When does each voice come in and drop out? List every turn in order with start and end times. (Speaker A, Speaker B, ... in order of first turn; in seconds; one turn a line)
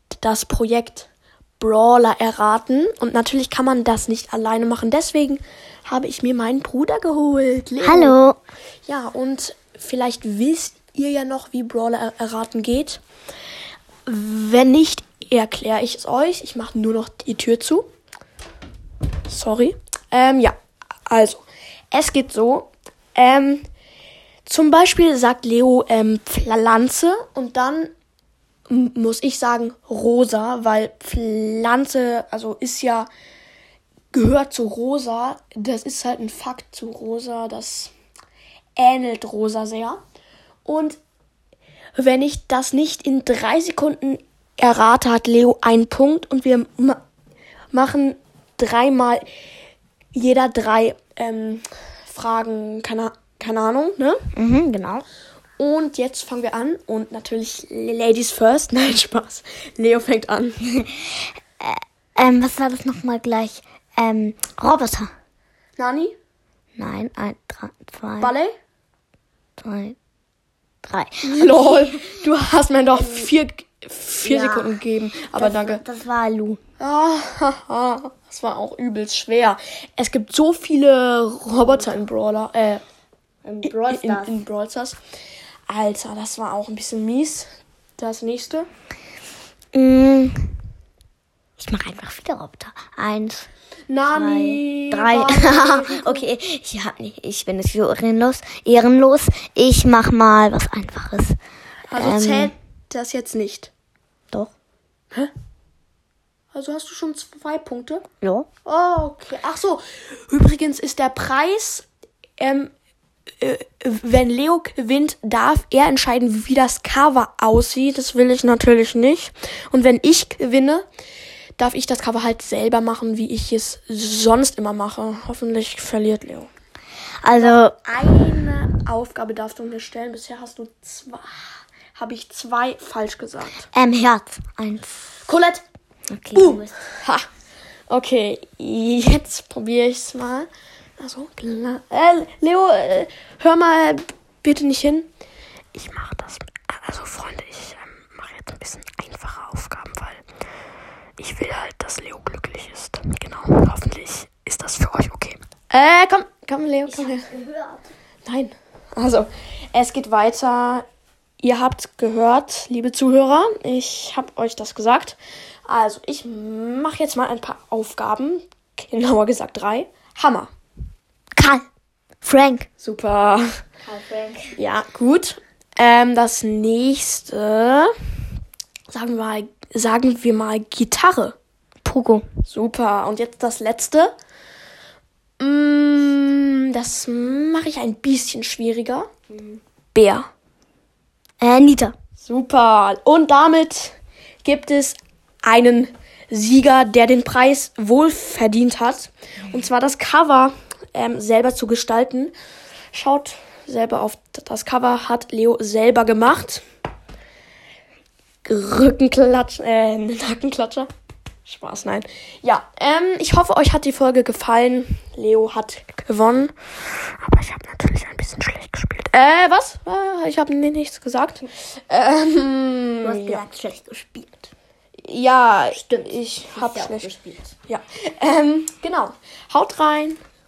Speaker A: 0.2-1.1
Speaker A: 1.6-8.1
Speaker B: 7.8-8.4
Speaker A: 8.8-13.0
Speaker A: 14.1-17.9
Speaker A: 19.3-20.6
Speaker A: 21.1-23.7
Speaker A: 24.4-27.9
Speaker A: 28.7-33.1
Speaker A: 34.1-37.9
Speaker A: 38.8-40.0
Speaker A: 40.6-41.0
Speaker A: 42.0-47.0
Speaker A: 47.7-49.2
Speaker A: 50.1-54.2
Speaker B: 54.3-55.0
Speaker A: 55.6-60.6
Speaker B: 60.7-65.1
Speaker A: 65.8-66.1
Speaker B: 66.8-68.3
Speaker A: 68.2-68.5
Speaker B: 69.6-70.0
Speaker B: 70.8-72.0
Speaker A: 71.2-75.8
Speaker B: 72.9-73.3
Speaker B: 74.2-74.8
Speaker B: 75.3-76.6
Speaker A: 76.8-82.8
Speaker B: 83.4-84.3
Speaker A: 83.7-85.0
Speaker A: 85.7-88.7
Speaker B: 89.7-90.5
Speaker B: 91.6-93.5
Speaker A: 93.9-96.3
Speaker B: 94.1-101.4
Speaker A: 101.9-103.7
Speaker B: 102.0-102.5
Speaker A: 106.5-108.0
Speaker B: 108.2-108.5
Speaker A: 108.6-111.8
Speaker A: 112.4-112.7
Speaker A: 113.4-120.8
Speaker A: 121.6-126.5
Speaker B: 127.2-127.7
Speaker A: 127.4-133.7
Speaker B: 133.7-135.1
Speaker A: 135.3-135.6
Speaker B: 136.1-136.7
Speaker A: 136.3-137.2
Speaker A: 137.9-140.5
Speaker A: 141.0-145.1
Speaker A: 145.7-150.2
Speaker A: 151.2-157.3
Speaker B: 156.9-157.8
Speaker A: 158.2-160.8
Speaker A: 161.4-170.5
Speaker B: 171.4-171.6
Speaker B: 172.2-172.7
Speaker A: 172.8-173.6
Speaker B: 173.8-174.5
Speaker A: 174.5-177.9
Speaker A: 178.9-181.3
Speaker B: 181.8-182.3
Speaker A: 182.4-184.1
Speaker A: 185.4-189.1
Speaker A: 189.9-190.3
Speaker B: 191.4-191.9
Speaker A: 192.2-202.3
Speaker A: 202.9-206.6
Speaker A: 208.4-210.9
Speaker A: 211.4-223.4
Speaker B: 223.0-224.5
Speaker A: 225.0-227.1
Speaker B: 225.7-227.5
Speaker A: 227.7-230.2